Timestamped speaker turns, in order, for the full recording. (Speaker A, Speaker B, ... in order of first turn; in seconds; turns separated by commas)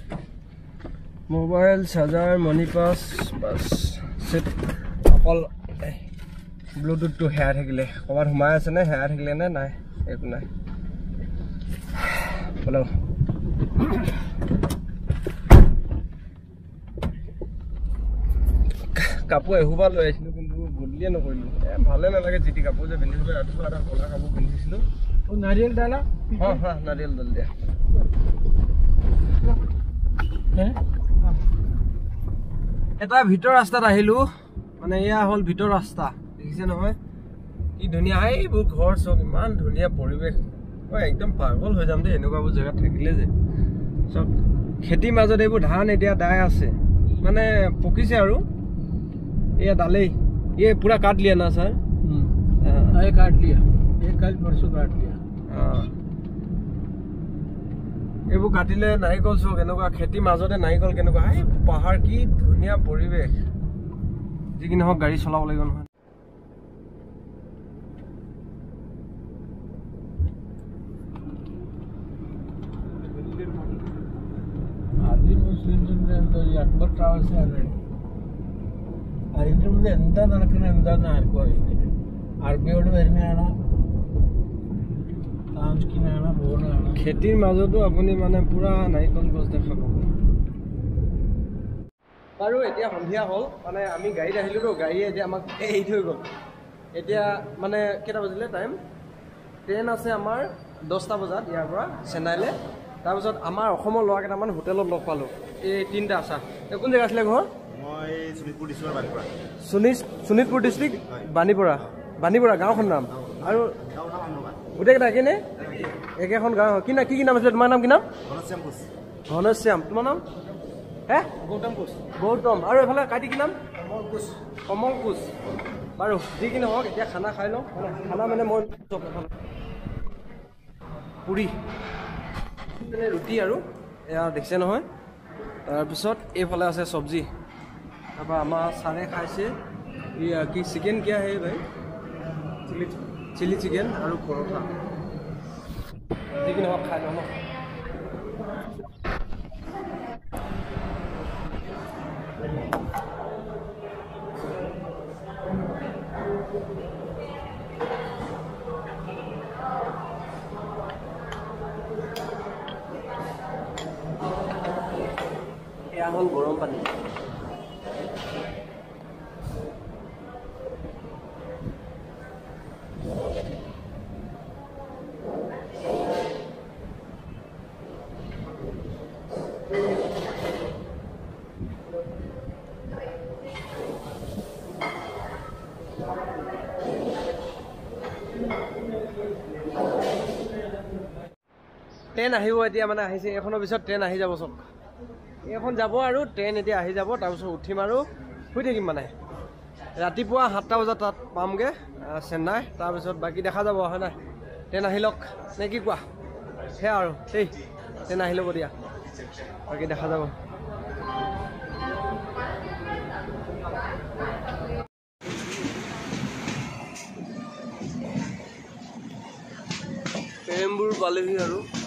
Speaker A: 1.3-6.0, Speaker A: 6.8-10.5, Speaker A: 12.1-12.9, Speaker A: 18.9-24.8, Speaker B: 25.3-26.6, Speaker A: 26.3-27.5, Speaker B: 30.6-30.8, Speaker A: 33.0-37.0, Speaker A: 37.8-43.3, Speaker A: 44.1-48.5, Speaker A: 49.6-51.8, Speaker B: 52.0-52.4, Speaker A: 52.6-53.0, Speaker B: 52.9-55.2, Speaker A: 55.5-55.9, Speaker A: 58.3-63.4, Speaker A: 64.6-65.9, Speaker B: 75.0-77.8, Speaker B: 79.3-81.9, Speaker B: 82.4-83.6, Speaker B: 85.5-87.0, Speaker A: 86.9-90.1, Speaker A: 92.4-96.3, Speaker A: 97.0-98.8, Speaker A: 99.7-107.5, Speaker C: 107.7-109.3, Speaker A: 109.6-113.8, Speaker C: 114.1-114.5, Speaker A: 114.7-118.1, Speaker C: 118.3-118.8, Speaker A: 119.3-120.2, Speaker A: 121.1-125.3, Speaker A: 126.0-129.3, Speaker A: 131.2-131.6, Speaker A: 132.7-134.9, Speaker A: 135.7-137.3, Speaker A: 138.2-139.5, Speaker A: 140.2-141.6, Speaker A: 142.7-144.8, Speaker A: 146.3-147.4, Speaker A: 165.9-167.0, Speaker A: 192.1-194.7, Speaker A: 195.4-199.1, Speaker A: 200.0-204.2, Speaker A: 204.7-206.1, Speaker A: 206.8-207.5, Speaker A: 208.1-208.7, Speaker A: 209.7-210.4, Speaker A: 220.5-221.7